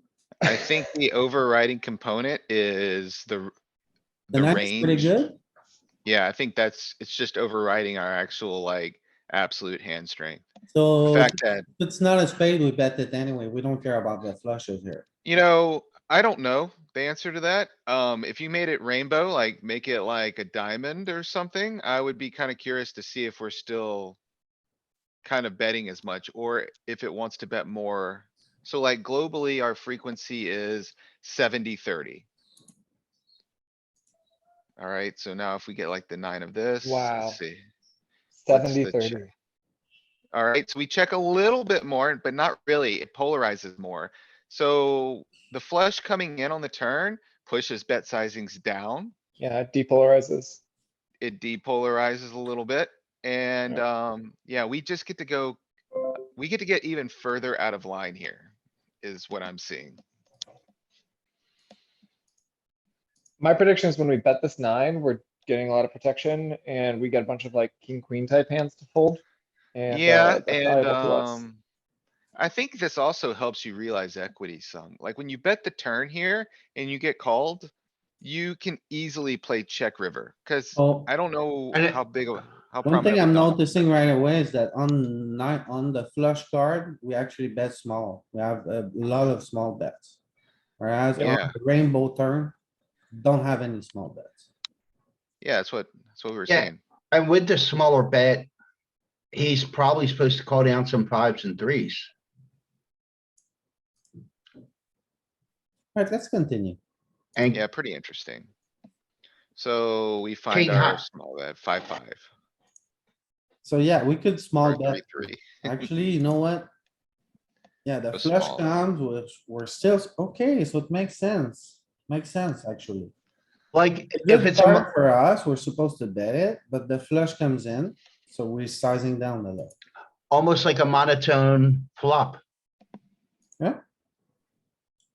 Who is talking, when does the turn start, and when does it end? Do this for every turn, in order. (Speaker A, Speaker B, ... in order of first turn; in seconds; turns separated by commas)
Speaker A: 0.4-3.5, Speaker A: 4.3-5.1, Speaker B: 4.3-5.4, Speaker A: 6.0-10.4, Speaker B: 10.7-15.1, Speaker A: 11.0-11.7, Speaker A: 15.2-24.2, Speaker A: 25.2-32.3, Speaker A: 34.8-37.6, Speaker C: 36.8-37.4, Speaker C: 38.4-39.3, Speaker A: 38.5-39.2, Speaker A: 40.3-49.1, Speaker C: 49.4-50.6, Speaker A: 51.2-55.6, Speaker A: 56.4-60.0, Speaker C: 63.4-69.2, Speaker C: 69.8-71.4, Speaker A: 69.9-71.6, Speaker A: 72.4-83.8, Speaker B: 80.8-81.1, Speaker D: 81.7-82.0, Speaker B: 82.8-90.2, Speaker B: 90.8-92.5, Speaker A: 91.2-91.5, Speaker B: 93.1-94.4, Speaker A: 95.4-96.8, Speaker D: 96.5-98.5, Speaker D: 99.3-102.1, Speaker B: 106.0-106.8, Speaker D: 107.4-107.6, Speaker A: 107.5-108.5, Speaker A: 109.6-112.3, Speaker D: 110.5-111.0, Speaker B: 113.6-116.7, Speaker A: 114.6-115.9, Speaker B: 117.8-123.1, Speaker A: 118.1-118.7, Speaker D: 123.7-124.9, Speaker B: 124.2-129.7, Speaker D: 130.3-132.4